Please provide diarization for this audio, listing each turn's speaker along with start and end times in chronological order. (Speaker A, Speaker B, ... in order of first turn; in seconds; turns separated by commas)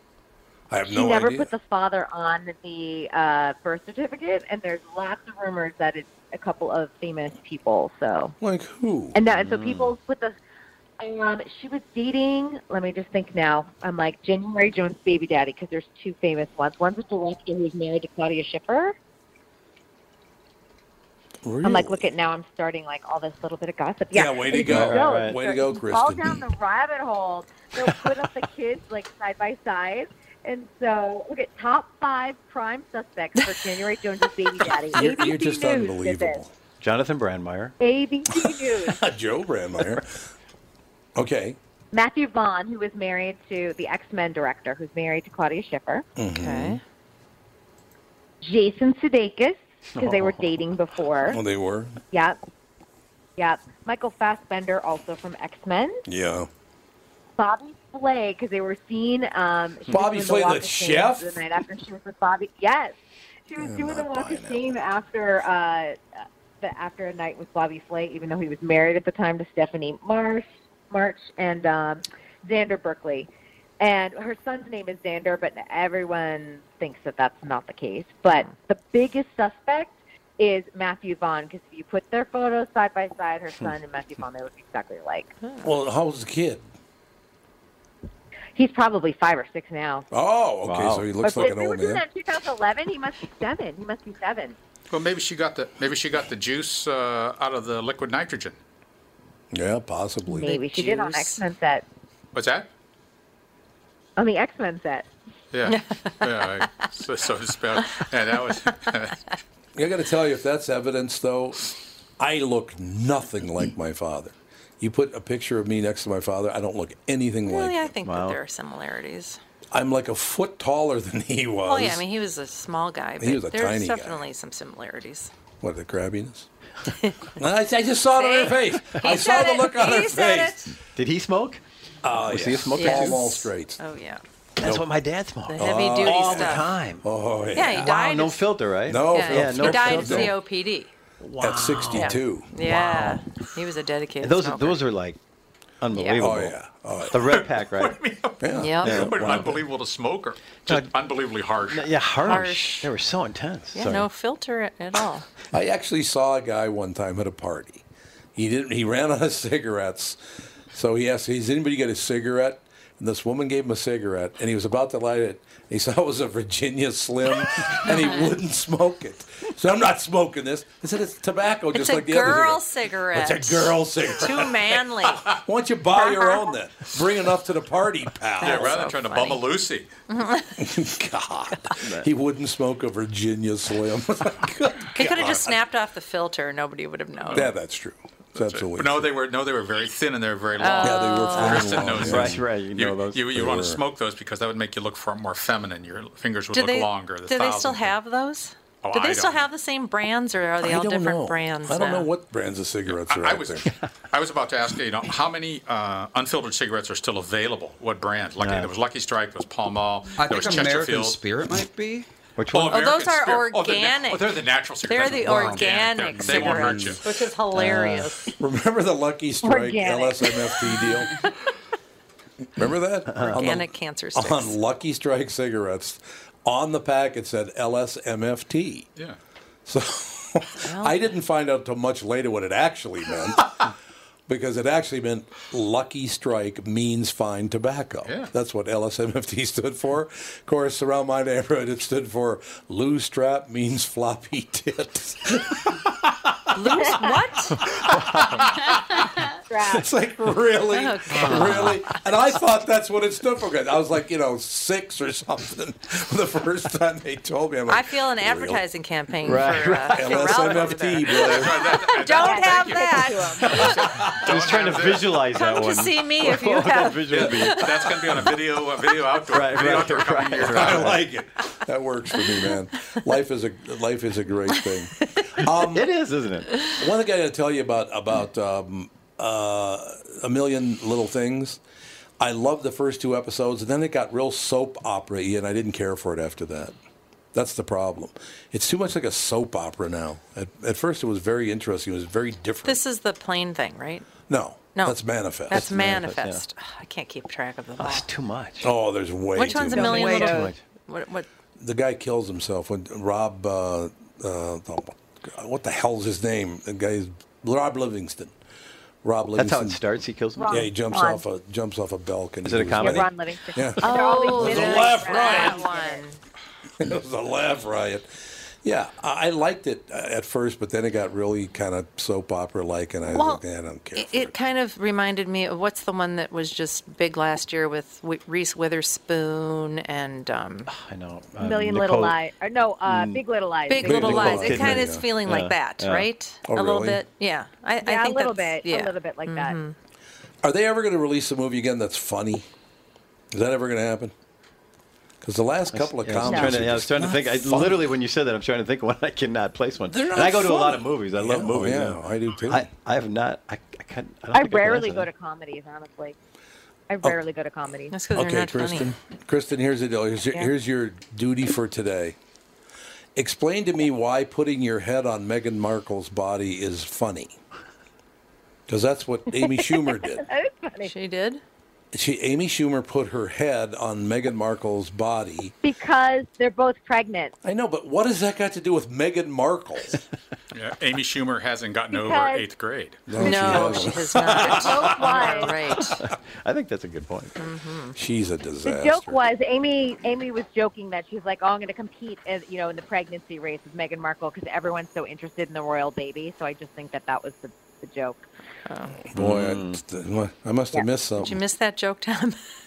Speaker A: 0.7-1.5, Speaker B: 0.8-8.3, Speaker A: 8.4-9.2, Speaker B: 9.1-10.3, Speaker C: 9.3-9.9, Speaker B: 11.0-18.9, Speaker A: 21.4-22.0, Speaker B: 21.6-36.4, Speaker A: 24.1-26.4, Speaker C: 24.6-25.4, Speaker A: 34.9-36.5, Speaker C: 36.8-37.7, Speaker B: 37.8-39.0, Speaker A: 38.3-40.2, Speaker A: 41.1-41.6, Speaker B: 41.9-46.0, Speaker A: 46.2-46.8, Speaker D: 46.4-46.8, Speaker B: 48.4-51.4, Speaker C: 49.9-50.6, Speaker A: 51.3-52.0, Speaker B: 52.1-52.4, Speaker B: 53.4-56.0, Speaker A: 56.0-56.5, Speaker B: 57.4-62.9, Speaker A: 59.9-61.3, Speaker B: 63.5-73.3, Speaker A: 63.6-64.7, Speaker B: 73.8-85.3, Speaker A: 85.6-86.6, Speaker B: 88.5-90.0, Speaker A: 90.1-92.0, Speaker C: 90.6-91.1, Speaker B: 91.2-94.5, Speaker E: 94.9-98.6, Speaker A: 99.5-100.6, Speaker D: 100.3-101.4, Speaker B: 100.3-101.8, Speaker E: 102.3-102.7, Speaker B: 104.2-105.1, Speaker E: 105.5-109.2, Speaker D: 105.7-106.2, Speaker A: 109.7-117.9, Speaker D: 117.5-119.4, Speaker C: 118.0-118.4, Speaker A: 119.7-122.0, Speaker D: 121.7-125.3, Speaker A: 123.2-124.2, Speaker A: 125.6-126.5, Speaker A: 127.4-130.7, Speaker D: 128.1-130.7, Speaker C: 130.9-131.6, Speaker A: 132.0-133.8, Speaker C: 132.2-133.2, Speaker D: 132.7-134.2, Speaker C: 134.6-137.0, Speaker A: 134.6-134.8, Speaker D: 135.5-136.6, Speaker A: 135.6-137.9, Speaker D: 137.5-138.4, Speaker C: 137.7-140.4, Speaker A: 138.9-140.3, Speaker D: 139.1-140.9, Speaker C: 141.2-143.2, Speaker A: 141.4-142.5, Speaker D: 141.9-144.8, Speaker C: 144.2-145.2, Speaker C: 145.8-146.6, Speaker D: 145.9-146.3, Speaker A: 146.2-147.2, Speaker C: 147.1-148.0, Speaker E: 147.2-151.9, Speaker A: 148.4-149.5, Speaker D: 148.6-149.0, Speaker C: 148.8-149.6, Speaker C: 150.7-150.9, Speaker C: 151.7-154.1, Speaker D: 152.2-152.9, Speaker D: 153.7-155.2, Speaker A: 155.5-157.8, Speaker A: 158.3-160.2, Speaker A: 160.7-178.9, Speaker D: 171.7-175.3, Speaker D: 175.9-176.4, Speaker D: 178.4-179.4, Speaker E: 178.4-179.9, Speaker D: 180.1-180.6, Speaker A: 180.6-185.6, Speaker D: 184.9-187.5, Speaker A: 187.3-189.1, Speaker E: 188.3-197.9, Speaker D: 190.6-191.7, Speaker A: 190.8-192.4, Speaker C: 191.4-193.3, Speaker A: 193.3-193.8, Speaker D: 196.5-202.1, Speaker E: 198.8-199.5, Speaker A: 200.6-203.7, Speaker E: 202.9-211.2, Speaker C: 208.4-208.7, Speaker F: 210.2-212.1, Speaker C: 212.4-212.8, Speaker E: 212.5-217.0, Speaker D: 212.7-214.3, Speaker D: 214.8-218.3, Speaker F: 215.1-217.0, Speaker C: 217.5-218.1, Speaker A: 218.4-221.1, Speaker B: 219.4-220.7, Speaker A: 222.6-228.9, Speaker C: 223.1-223.4, Speaker D: 223.2-224.6, Speaker A: 229.7-233.5, Speaker D: 230.6-231.0, Speaker A: 234.3-247.1, Speaker E: 238.1-238.3, Speaker D: 246.5-247.6, Speaker B: 246.8-247.1, Speaker A: 247.7-249.1, Speaker B: 249.5-249.9, Speaker A: 249.7-258.6, Speaker D: 250.7-251.8, Speaker C: 251.1-251.8, Speaker D: 257.7-263.6, Speaker C: 259.2-260.3, Speaker A: 259.7-261.8, Speaker E: 261.1-265.5, Speaker B: 262.1-263.7, Speaker A: 263.4-264.4, Speaker C: 264.2-267.7, Speaker D: 265.3-267.7, Speaker E: 267.1-271.0, Speaker C: 269.3-271.0, Speaker A: 270.5-275.9, Speaker D: 274.5-275.2, Speaker C: 275.7-276.7, Speaker A: 276.7-281.6, Speaker A: 282.2-286.8, Speaker A: 287.3-292.8, Speaker D: 292.6-294.1, Speaker A: 294.3-295.7, Speaker D: 294.7-298.1, Speaker C: 295.5-296.4, Speaker C: 297.8-298.7, Speaker A: 298.6-300.1, Speaker D: 299.3-301.3, Speaker C: 299.6-300.6, Speaker B: 300.0-300.5, Speaker A: 301.6-308.3, Speaker A: 309.0-309.8, Speaker C: 309.3-310.7, Speaker B: 310.4-311.2, Speaker A: 310.5-315.7, Speaker C: 312.4-313.1, Speaker B: 312.8-316.0, Speaker D: 313.8-316.2, Speaker A: 316.8-318.1, Speaker A: 318.6-324.3, Speaker D: 323.1-323.4, Speaker D: 323.9-330.7, Speaker C: 330.7-332.2, Speaker B: 331.4-334.6, Speaker C: 332.9-333.2, Speaker D: 333.7-339.8, Speaker A: 333.8-335.0, Speaker C: 333.8-336.1, Speaker A: 336.5-337.0, Speaker B: 337.8-339.6, Speaker A: 340.4-342.5, Speaker A: 343.3-344.1, Speaker A: 345.2-347.9, Speaker C: 345.7-355.1, Speaker B: 346.2-346.6, Speaker A: 349.9-352.7, Speaker B: 354.3-356.1, Speaker B: 356.9-357.9, Speaker D: 357.9-358.9, Speaker A: 358.1-362.1, Speaker A: 363.1-367.4, Speaker A: 368.7-370.2, Speaker B: 369.4-370.9, Speaker D: 370.8-371.4, Speaker A: 371.9-375.5, Speaker B: 375.6-377.3, Speaker A: 377.4-380.0, Speaker E: 380.5-383.1, Speaker B: 381.9-382.4, Speaker A: 383.1-385.9, Speaker D: 383.2-386.0, Speaker B: 383.2-383.7, Speaker C: 383.2-383.9, Speaker B: 384.4-385.5, Speaker C: 386.0-387.3, Speaker D: 387.4-387.9, Speaker A: 387.9-389.2, Speaker B: 388.6-398.3, Speaker D: 398.7-398.9, Speaker A: 399.1-401.4, Speaker C: 399.1-399.8, Speaker D: 401.2-402.4